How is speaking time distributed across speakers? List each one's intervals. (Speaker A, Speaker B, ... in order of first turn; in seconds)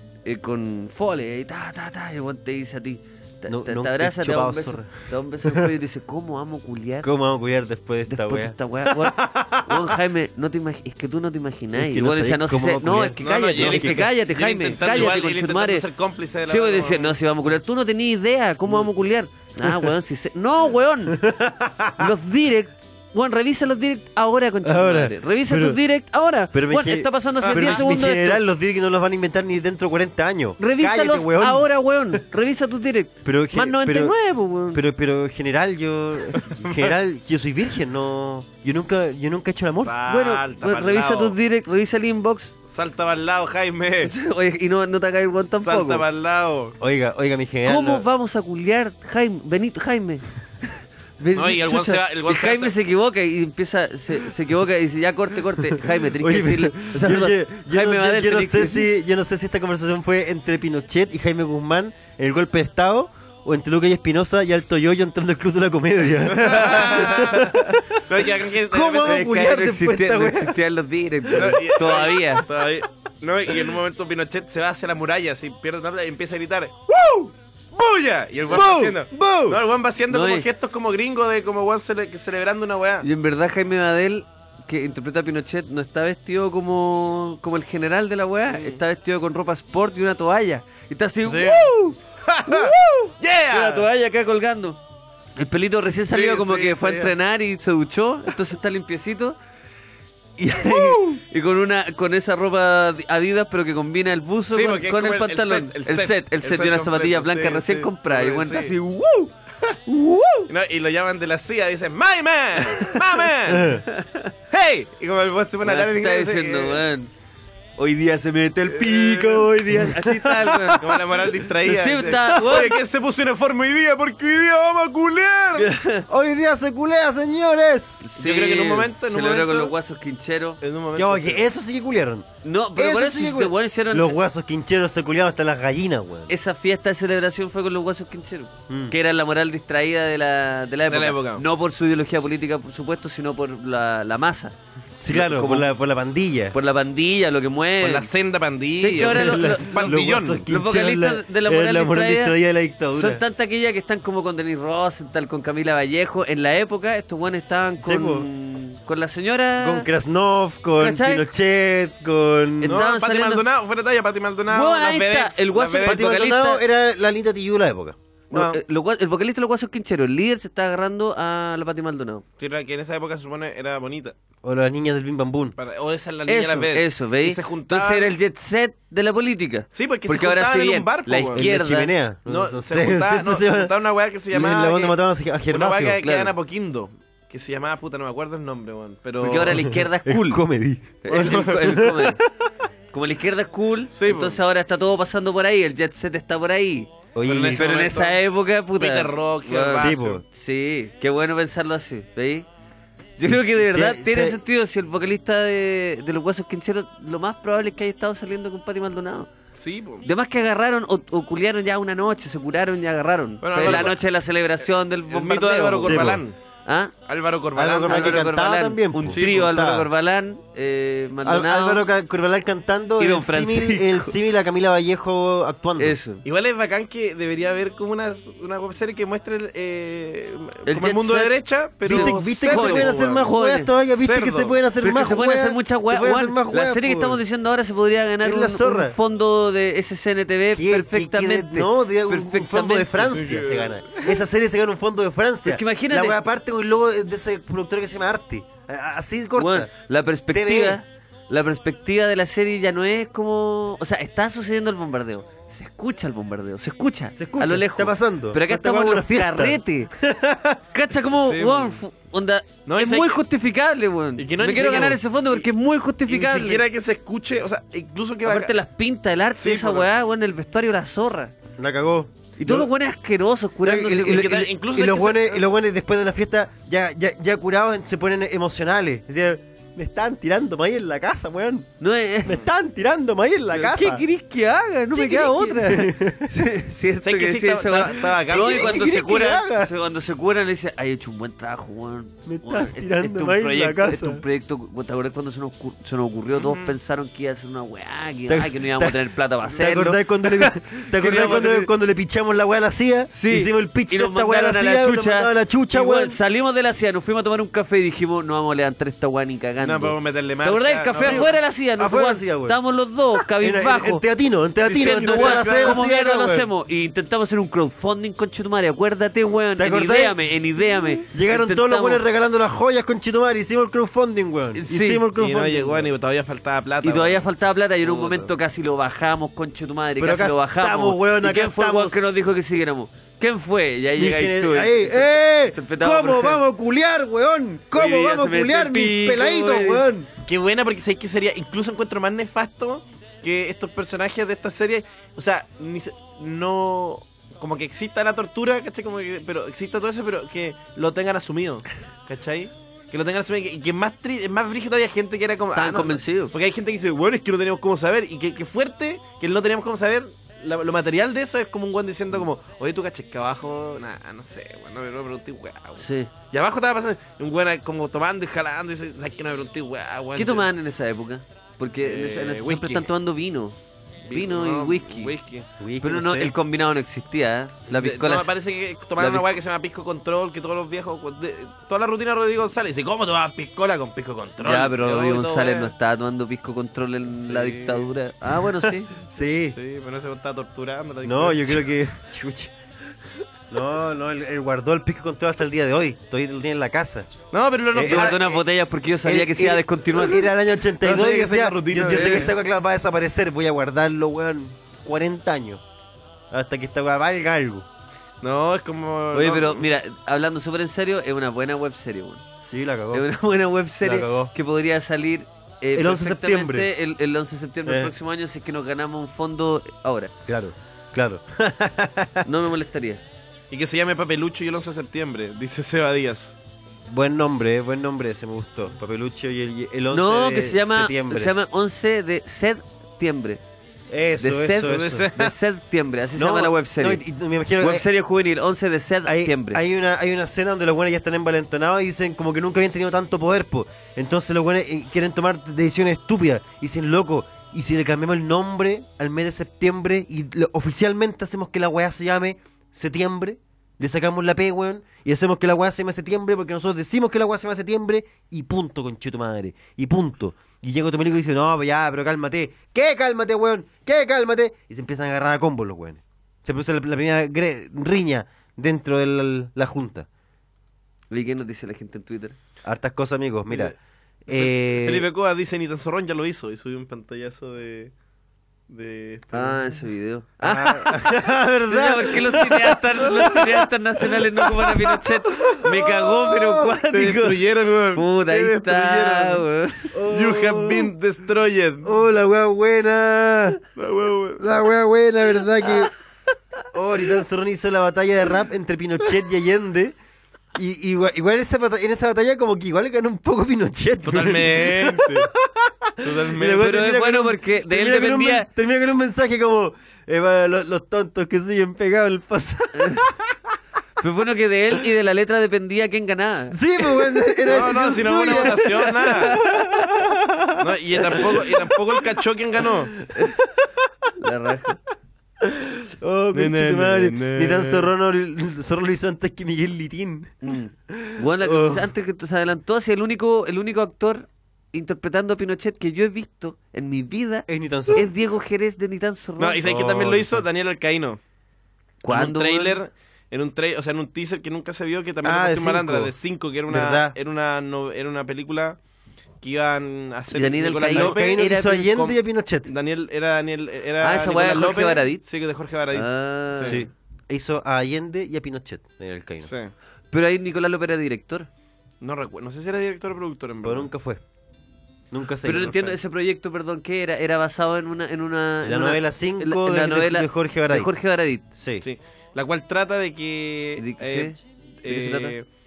Speaker A: 0.2-7.1, 8.1-15.8, 16.5-21.2, 22.0-28.4, 30.6-34.8, 40.1-42.5, 44.0-46.0, 47.6-50.3, 51.2-58.9, 66.5-67.5, 69.0-72.5, 80.1-80.5, 83.0-94.8, 95.4-99.4, 100.4-109.3, 113.9-114.3, 115.6-117.1, 117.8-120.8, 121.6-122.8, 125.6-126.0, 128.0-130.6, 132.4-134.2, 136.3-144.6, 145.1-145.7, 146.5-148.1, 148.8-152.4, 152.9-159.9, 160.8-161.3, 162.6-163.4, 164.5-166.6, 168.3-172.2, 176.3-181.9, 186.0-186.3, 189.2-190.4, 191.0-192.2, 192.9-196.9, 197.5-202.5, 203.2-209.3, 210.0-216.9, 217.9-221.9, 223.0-224.1, 225.8-226.2, 230.7-231.3, 231.8-233.7, 234.8-243.2, 245.4-246.2, 249.4-259.9, 260.7-266.6, 268.2-271.3, 272.4-274.3, 281.8-282.4, 283.5-301.7, 303.1-314.1, 314.6-322.0, 324.6-325.0, 326.8-336.4, 337.7-339.9, 355.6-356.3, 365.8-366.1, 370.1-373.6, 374.1-375.1, 375.8-378.3, 379.0-379.2, 384.4-388.9, 397.8-400.3, 401.9-402.3, 409.1-412.2, 412.9-420.1, 422.2-423.0, 429.9-433.4, 434.2-437.0, 437.6-439.6, 471.1-472.4, 479.3-481.0, 481.7-487.4, 487.9-489.9, 506.5-508.5, 514.0-516.6, 519.0-519.9, 524.2-524.8, 530.4-539.7, 542.0-542.8, 550.3-551.9, 554.0-555.2, 555.9-556.9, 560.1-561.5, 565.4-571.4, 573.8-575.3
Speaker B: 3.5-4.9, 7.0-9.9, 11.7-14.1, 19.6-19.9, 21.1-22.1, 24.6-25.8, 26.5-32.2, 33.2-34.1, 34.7-40.0, 46.8-48.0, 56.0-67.8, 68.6-70.6, 71.3-71.6, 78.5-79.6, 109.9-110.4, 113.5-113.8, 119.6-120.9, 126.1-128.1, 130.9-136.3, 138.7-138.9, 145.0-146.6, 149.0-153.2, 157.8-158.3, 159.6-162.8, 165.8-167.9, 174.4-175.6, 181.3-183.7, 184.3-186.0, 189.5-192.2, 197.1-197.7, 199.8-200.2, 203.3-204.4, 213.6-213.9, 215.8-216.2, 217.6-219.9, 221.2-225.9, 231.8-237.2, 238.2-239.0, 240.5-249.7, 250.3-250.8, 257.1-260.6, 271.6-272.7, 273.6-281.7, 282.2-284.0, 284.9-286.3, 288.3-289.7, 292.3-294.2, 298.3-306.2, 311.0-312.6, 313.4-316.5, 319.6-320.2, 321.1-325.9, 330.0-332.2, 333.9-340.1, 375.6-376.3, 388.6-389.6, 391.0-392.5, 393.5-397.1, 397.7-398.3, 399.0-405.6, 406.3-407.7, 412.4-413.1, 413.8-414.3, 415.8-416.7, 417.6-417.9, 420.3-422.2, 426.9-431.3, 433.9-435.1, 436.1-437.9, 439.1-470.1, 472.6-473.7, 474.3-475.1, 480.4-483.6, 484.4-486.8, 489.9-490.9, 491.8-493.6, 494.4-495.9, 496.7-499.9, 500.6-513.4, 516.5-518.7, 519.3-520.5, 521.1-521.8, 523.1-523.7, 525.4-530.3, 530.9-531.9, 537.5-538.1, 539.6-540.4, 545.2-546.1, 546.7-547.1, 550.9-552.7, 556.6-559.5, 563.6-564.2, 565.1-566.0, 568.6-570.9, 571.5-571.9
Speaker C: 13.2-17.2, 27.4-27.8, 36.4-36.9, 39.8-41.4, 42.7-44.1, 45.6-46.8, 51.4-52.8, 66.3-69.2, 71.3-83.1, 88.5-88.8, 91.2-93.9, 96.1-97.1, 104.5-108.8, 110.5-113.7, 114.5-116.8, 118.7-119.5, 120.8-125.7, 128.2-129.7, 130.6-131.4, 140.9-141.4, 147.8-150.4, 162.6-166.0, 168.3-168.6, 172.4-174.1, 175.6-178.1, 179.7-181.4, 182.3-185.0, 185.5-189.6, 191.1-191.8, 193.9-194.4, 197.2-198.2, 198.8-200.2, 209.6-210.1, 213.4-214.0, 215.1-216.3, 217.1-218.2, 219.1-219.4, 226.2-233.2, 234.0-234.6, 243.1-244.1, 261.1-261.8, 262.6-263.2, 264.2-265.5, 266.1-268.5, 269.4-269.9, 274.0-275.4, 287.0-288.8, 296.4-296.7, 301.1-301.5, 309.6-311.3, 314.7-315.8, 325.1-327.3, 327.8-328.3, 340.2-370.5, 371.8-372.9, 374.1-375.5, 377.7-385.7, 387.2-387.9, 389.5-391.6, 397.3-398.4, 400.8-402.4, 408.2-409.6, 423.5-426.4, 434.6-435.3, 473.5-473.8, 474.3-477.9, 478.7-479.7, 486.9-489.4, 490.1-491.9, 493.8-494.4, 504.1-505.3, 506.0-506.7, 517.5-519.4, 520.6-522.9, 526.3-527.9, 539.4-541.2, 542.1-548.8, 549.4-556.8, 559.4-559.7, 562.0-563.9, 571.8-575.5